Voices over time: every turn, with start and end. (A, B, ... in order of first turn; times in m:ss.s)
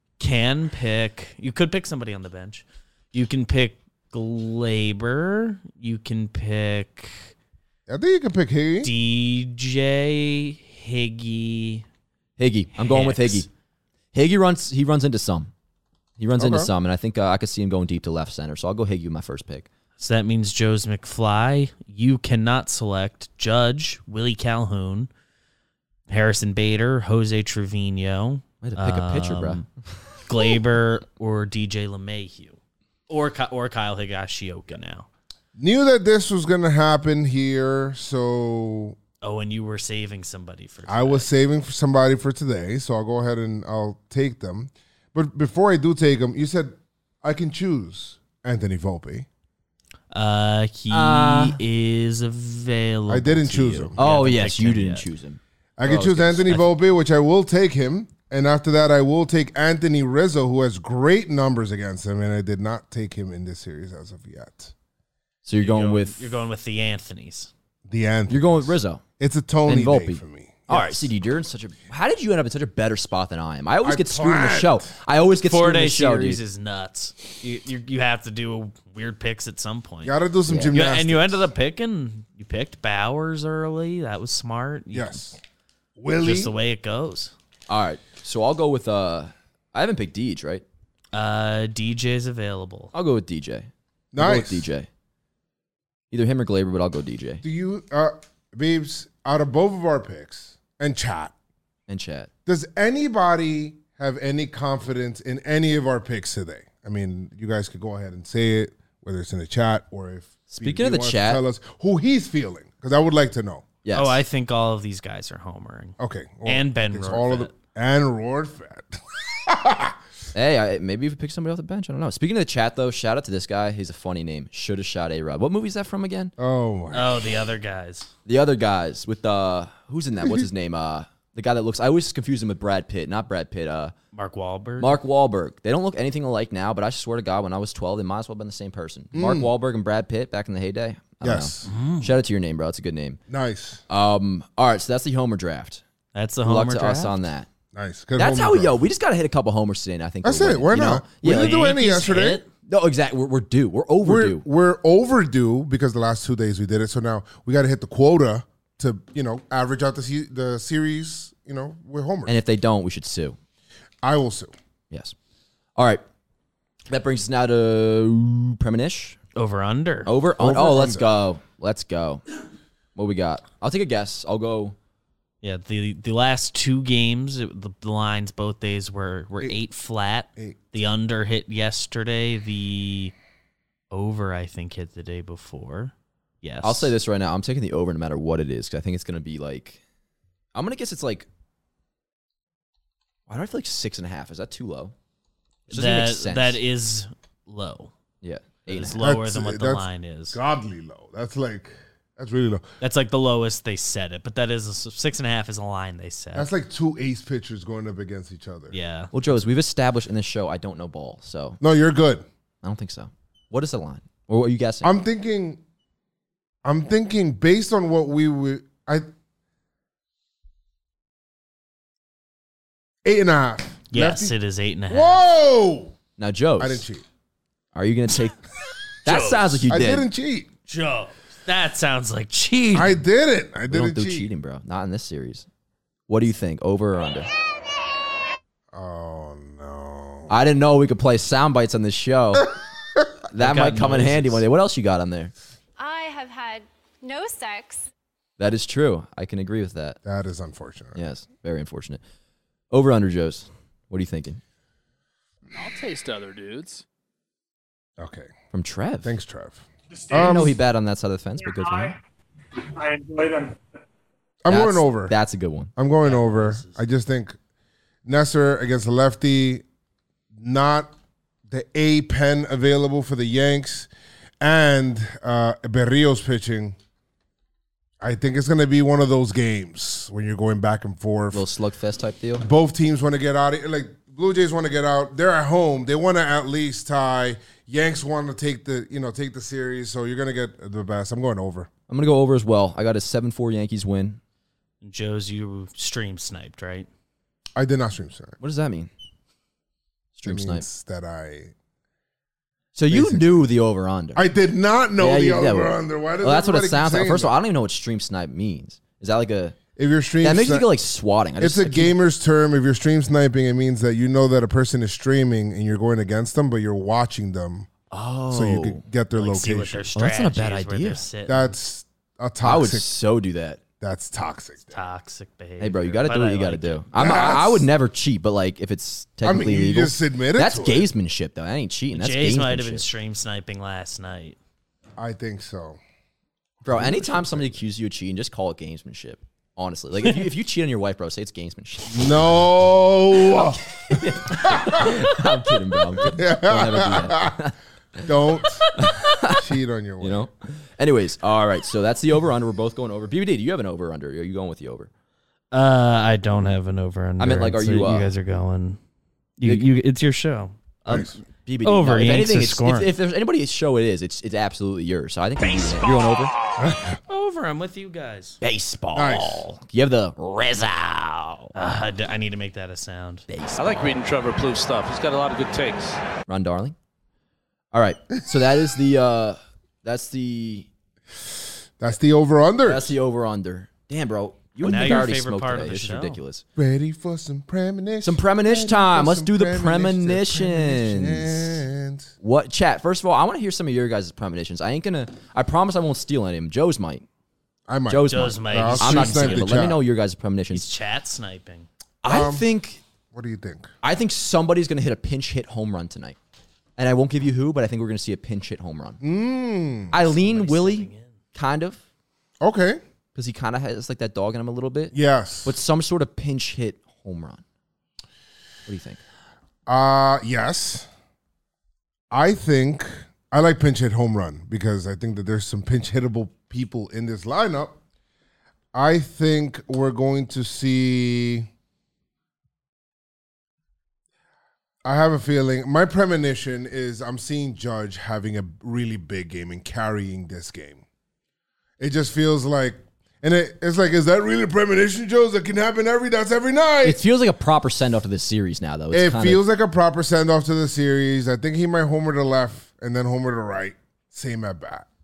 0:00.2-0:07.3 A
0:07.9-0:08.9 B
0:08.8-0:11.8 A
0:12.4-0:13.5 C
0:12.7-0:13.4 A
0:14.1-0:15.5 C
0:16.2-0:19.7 C
0:16.4-0:16.7 B
0:20.0-0:25.1 A
0:26.1-0:29.6 A
0:28.6-0:29.6 C
0:30.2-0:32.6 A
0:33.1-0:35.1 A
0:35.6-0:39.0 B
0:39.2-0:41.3 A
0:40.9-0:49.3 B
0:50.1-0:55.0 A
0:50.9-0:51.6 C
0:53.1-0:54.0 B
0:54.0-0:56.6 C
0:55.8-1:04.7 B
1:05.4-1:06.3 C
1:05.6-1:07.5 A
1:07.9-1:11.1 B
1:08.3-1:09.0 C
1:09.6-1:16.4 C
1:13.8-1:14.9 B
1:15.4-1:20.2 A
1:20.0-1:21.5 B
1:20.5-1:20.8 C
1:20.7-1:25.2 A
1:24.9-1:25.4 B
1:26.0-1:26.5 B
1:26.2-1:27.3 A
1:27.7-1:30.6 C
1:31.1-1:32.9 A
1:32.9-1:34.9 C
1:34.1-1:34.7 B
1:36.1-1:37.4 C
1:37.4-1:41.3 B
1:41.9-1:42.3 C
1:42.4-1:53.7 B
1:50.5-1:51.4 C
1:53.8-1:54.2 C
1:53.9-1:57.5 A
1:56.0-2:00.0 B
2:00.3-2:06.3 C
2:06.4-2:07.4 B
2:06.9-2:08.1 A
2:08.2-2:13.9 C
2:14.1-2:14.9 A
2:14.8-2:23.2 C
2:19.1-2:19.5 B
2:21.2-2:21.7 B
2:21.6-2:22.1 A
2:23.3-2:23.8 B
2:23.9-2:25.8 C
2:26.1-2:27.1 A
2:26.4-2:27.5 C
2:27.7-2:28.8 B
2:28.2-2:31.7 C
2:30.2-2:32.4 B
2:31.2-2:32.4 A
2:32.6-2:34.4 C
2:34.0-2:42.4 B
2:42.2-2:43.4 C
2:44.0-2:44.5 B
2:45.8-2:46.0 C
2:46.9-2:49.2 C
2:49.3-2:50.1 A
2:50.0-2:52.2 C
2:50.4-2:51.1 B
2:52.9-2:54.8 C
2:55.4-3:03.1 A
3:03.9-3:06.9 A
3:06.6-3:09.8 C
3:10.5-3:11.3 C
3:13.3-3:14.9 C
3:15.7-3:16.6 C
3:15.7-3:17.9 A
3:18.2-3:19.0 C
3:18.7-3:20.4 A
3:19.0-3:22.6 B
3:22.8-3:26.5 A
3:26.3-3:28.8 B
3:28.7-3:29.1 A
3:29.1-3:31.6 C
3:31.6-3:32.3 B
3:32.6-3:34.9 C
3:34.8-3:35.6 B
3:36.6-3:39.0 B
3:43.0-3:44.3 B
3:43.9-3:45.2 A
3:44.9-3:46.0 B
3:46.2-3:46.8 C
3:46.6-3:47.0 B
3:47.7-3:48.4 C
3:49.0-3:49.6 A
3:49.0-3:50.1 C
3:49.7-3:50.5 B
3:50.7-3:53.0 A
3:52.7-3:54.3 B
3:53.7-3:55.5 C
3:56.1-3:57.3 C
3:58.7-4:00.3 B
4:00.3-4:02.5 C
4:03.3-4:05.3 C
4:03.4-4:04.4 A
4:05.8-4:07.9 D
4:08.4-4:10.0 C
4:10.0-4:11.0 B
4:10.9-4:12.0 C
4:12.7-4:14.4 C
4:15.5-4:16.8 E
4:18.0-4:18.3 B
4:18.5-4:19.1 C
4:19.0-4:20.6 B
4:19.9-4:20.4 F
4:20.1-4:22.0 C
4:21.4-4:22.0 F
4:22.7-4:23.6 F
4:24.4-4:25.1 B
4:24.5-4:25.7 C
4:25.8-4:27.4 B
4:26.0-4:26.8 A
4:28.0-4:29.6 B
4:30.4-4:30.9 B
4:31.5-4:33.9 B
4:34.4-4:36.8 B
4:38.0-4:41.4 B
4:41.3-4:42.4 C
4:42.4-4:51.7 B
4:51.9-4:54.2 C
4:54.8-4:56.9 A
4:57.6-4:58.4 B
4:58.4-4:58.9 C
5:00.1-5:00.6 C
5:00.2-5:01.5 B
5:02.7-5:04.2 C
5:02.9-5:03.4 B
5:04.1-5:07.4 B
5:05.0-5:09.6 C
5:09.8-5:10.7 B
5:10.2-5:12.0 C
5:11.4-5:17.7 B
5:17.9-5:18.8 C
5:18.3-5:19.8 B
5:19.2-5:21.5 A
5:19.9-5:21.0 C
5:21.2-5:22.9 B
5:22.4-5:23.6 C
5:23.8-5:24.8 B
5:24.7-5:26.8 A
5:25.6-5:32.8 C
5:26.9-5:27.7 B
5:29.2-5:30.9 B
5:31.9-5:34.4 A
5:35.0-5:35.8 B
5:36.6-5:37.6 B
5:36.6-5:42.4 C
5:41.9-5:45.1 B
5:43.3-5:48.1 C
5:46.0-5:47.4 B
5:48.0-5:48.7 B
5:48.7-5:49.4 C
5:49.3-5:50.3 B
5:50.0-5:54.9 C
5:55.5-5:58.8 A
5:57.2-5:58.1 C
5:59.4-6:02.9 A
5:59.4-5:59.7 C
6:00.9-6:01.2 B
6:01.4-6:06.3 C
6:05.4-6:06.3 A
6:06.6-6:07.0 B
6:07.0-6:08.4 A
6:08.4-6:11.5 C
6:08.9-6:09.4 B
6:11.5-6:13.2 A
6:13.3-6:14.0 C
6:13.6-6:16.0 E
6:16.3-6:16.7 C
6:17.7-6:20.7 C
6:21.8-6:23.0 B
6:22.6-6:26.4 C
6:24.6-6:26.2 A
6:26.6-6:32.1 B
6:28.0-6:31.6 C
6:32.2-6:37.0 C
6:37.7-6:39.8 B
6:37.9-6:40.7 C
6:38.1-6:39.6 A
6:40.5-6:41.7 A
6:42.0-6:42.8 C
6:42.0-6:42.5 B
6:43.1-6:43.7 B
6:43.8-6:46.2 C
6:46.8-6:49.0 C
6:49.0-6:49.9 B
6:49.9-6:51.8 C
6:49.9-6:51.1 A
6:52.4-6:52.8 B
6:53.1-6:57.4 C
6:54.9-6:55.5 B
6:58.6-6:59.0 C
6:59.7-7:00.9 B
7:02.1-7:07.8 B
7:08.7-7:11.5 B
7:14.8-7:20.8 B
7:21.8-7:27.0 B
7:26.8-7:29.4 C
7:28.9-7:34.9 B